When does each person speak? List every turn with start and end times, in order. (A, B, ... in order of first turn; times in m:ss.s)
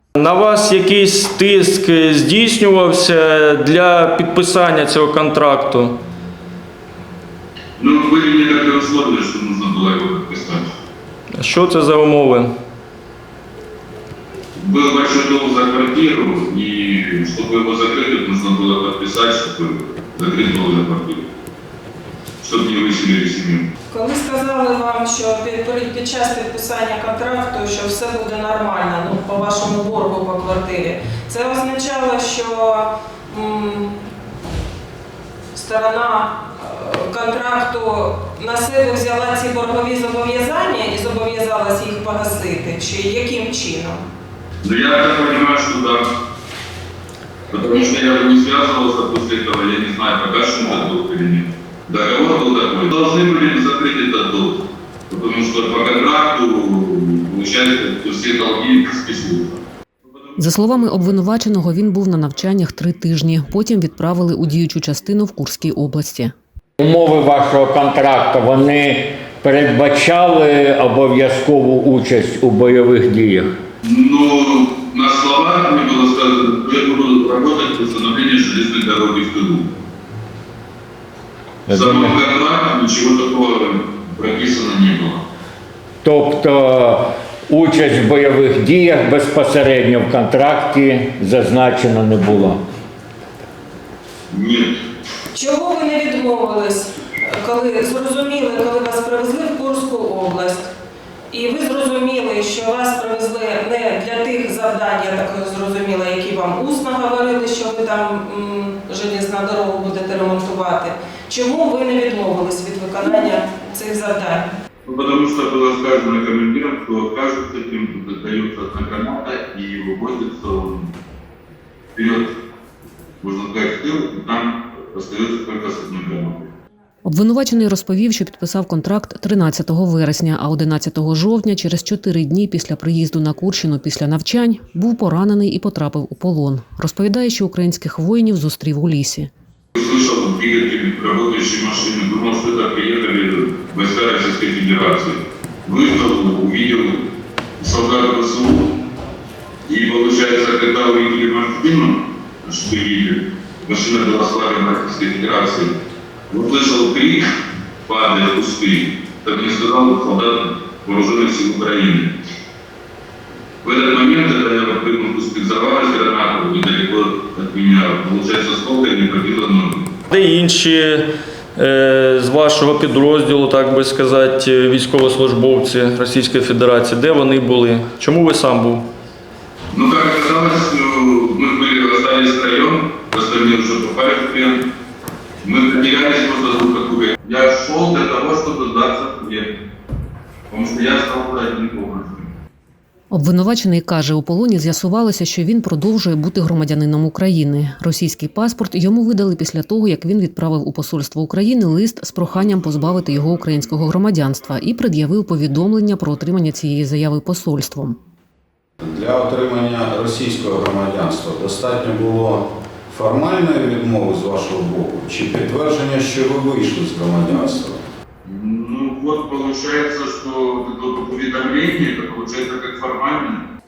0:00.2-0:06.0 A
0:07.8-0:10.7 B
0:11.3-0:12.5 A
0:14.6-0:21.3 B
0:22.4-0:23.7 B
0:23.9-0:33.9 C
0:35.5-0:44.0 C
0:44.6-0:46.1 B
0:47.5-1:00.8 B
1:00.4-1:06.3 D
1:06.8-1:13.5 E
1:13.8-1:19.7 B
1:21.7-1:22.2 E
1:21.7-1:25.2 B
1:26.0-1:32.6 E
1:34.3-1:34.8 B
1:35.3-1:40.7 C
1:41.3-1:54.5 C
1:54.9-2:00.9 B
2:02.0-2:02.3 B
2:03.2-2:06.5 B
2:07.0-2:19.3 D
2:19.8-2:27.1 B
2:27.6-2:28.8 B
2:29.7-2:35.7 B
2:36.3-2:37.2 B
2:37.9-2:42.1 B
2:43.6-2:49.9 B
2:50.1-2:58.9 A
2:59.7-3:04.6 B
3:05.4-3:09.5 B
3:10.5-3:12.3 B
3:13.1-3:28.0 D
3:28.8-3:37.8 F
3:38.2-3:43.4 B